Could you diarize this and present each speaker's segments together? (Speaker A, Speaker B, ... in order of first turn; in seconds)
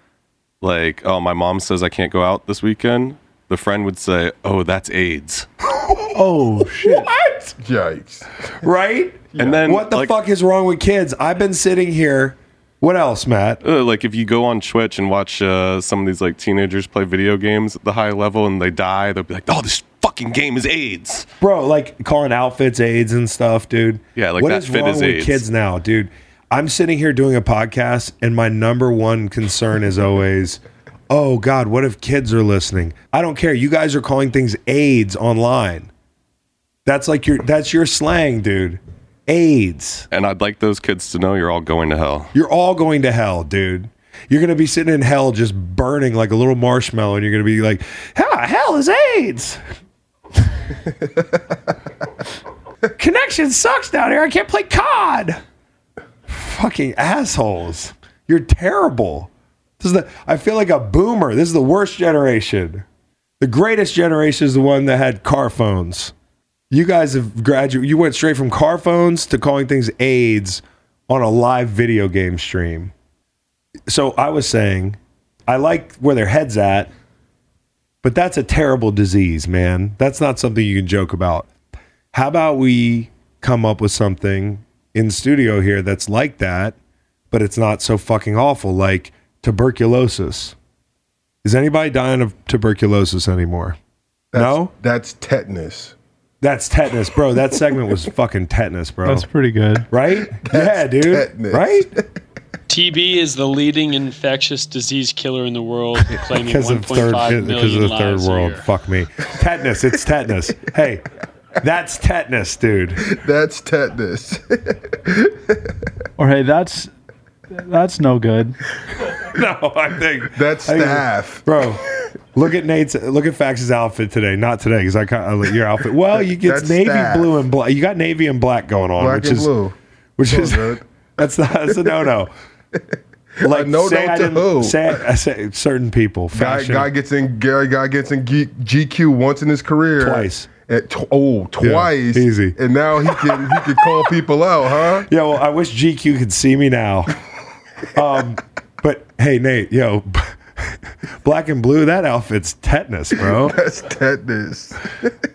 Speaker A: 0.6-5.5, 9.4-10.1, 13.6-21.3, 24.2-25.4, 40.1-42.3
Speaker B: 6.1-7.1, 99.0-99.9, 116.2-116.9, 117.5-118.6
Speaker C: 6.8-7.5, 8.6-13.6, 21.4-35.9, 36.9-40.1, 42.3-49.6, 53.0-55.4, 56.3-62.8, 63.4-66.1, 66.7-72.9, 73.9-76.9, 78.0-81.5, 82.1-86.8, 87.3-90.6, 91.4-93.8, 94.3-94.7, 96.4-99.3, 99.9-101.9, 106.1-111.1, 111.6-113.0, 119.2-129.5, 130.2-132.3, 133.4-136.9, 140.0-140.5, 141.6-143.6, 145.1-147.2, 147.9-153.6
Speaker D: 7.6-8.3, 9.4-9.6, 94.3-96.0, 100.4-102.1, 113.1-115.7, 120.3-121.5, 126.3-127.4, 129.0-130.8, 133.4-135.0, 136.3-145.1, 153.3-155.1
Speaker E: 102.7-108.6